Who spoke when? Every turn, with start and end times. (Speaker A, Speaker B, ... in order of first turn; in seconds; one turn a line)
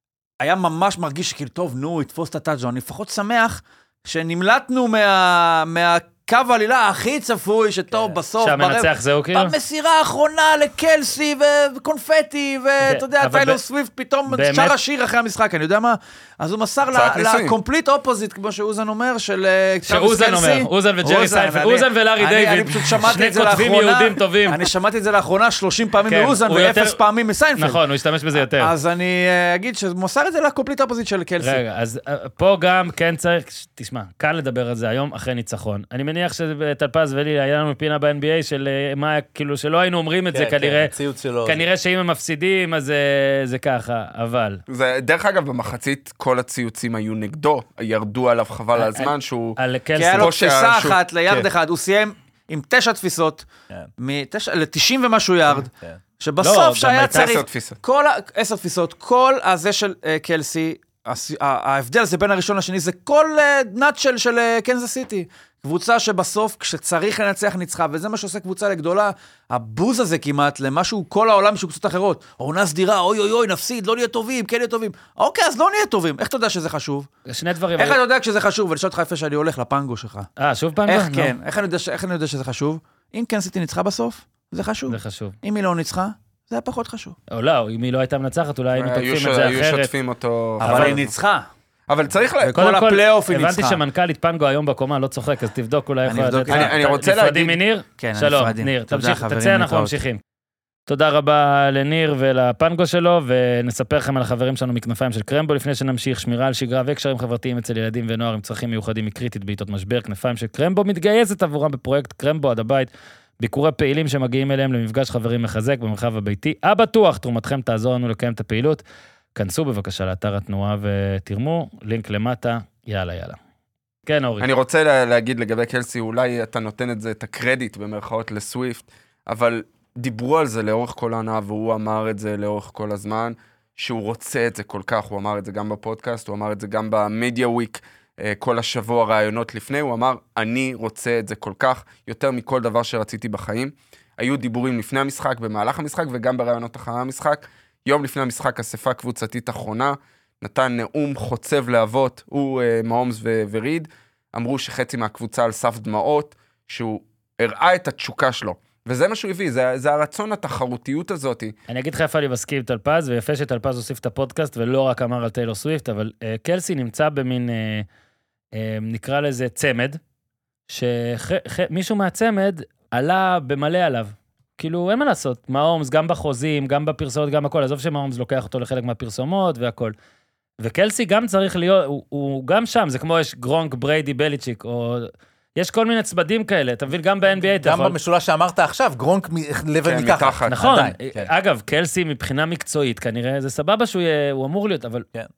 Speaker A: 0.4-27.8
Speaker B: 8.4-9.5
Speaker B: 12.8-13.6
Speaker B: 14.3-14.8
Speaker C: 16.9-17.6
Speaker B: 19.9-24.6
Speaker B: 26.1-27.0
Speaker B: 27.6-28.7
Speaker A: 28.5-31.6
Speaker B: 31.4-40.9
Speaker D: 40.3-41.6
Speaker B: 41.5-44.6
Speaker C: 44.7-49.6
Speaker B: 48.8-50.3
Speaker A: 50.0-53.5
Speaker C: 50.2-51.5
Speaker A: 54.0-77.1
Speaker D: 55.5-56.0
Speaker B: 56.4-57.3
Speaker C: 57.1-57.8
Speaker B: 77.3-78.0
Speaker A: 77.8-80.3
Speaker B: 80.4-81.3
Speaker A: 80.9-87.2
Speaker B: 84.9-85.4
Speaker B: 87.3-89.9
Speaker C: 88.7-91.1
Speaker B: 90.6-91.0
Speaker A: 90.6-91.5
Speaker C: 91.9-92.6
Speaker A: 92.4-93.8
Speaker B: 92.6-100.2
Speaker A: 96.0-96.8
Speaker C: 96.5-97.6
Speaker A: 98.0-100.0
Speaker B: 100.9-118.8
Speaker B: 119.3-123.4
Speaker B: 124.1-124.5
Speaker C: 124.4-161.6
Speaker B: 161.7-167.9
Speaker B: 168.6-170.0
Speaker B: 170.7-179.9
Speaker B: 180.6-188.0
Speaker D: 187.4-191.3
Speaker C: 189.8-190.6
Speaker B: 190.5-195.1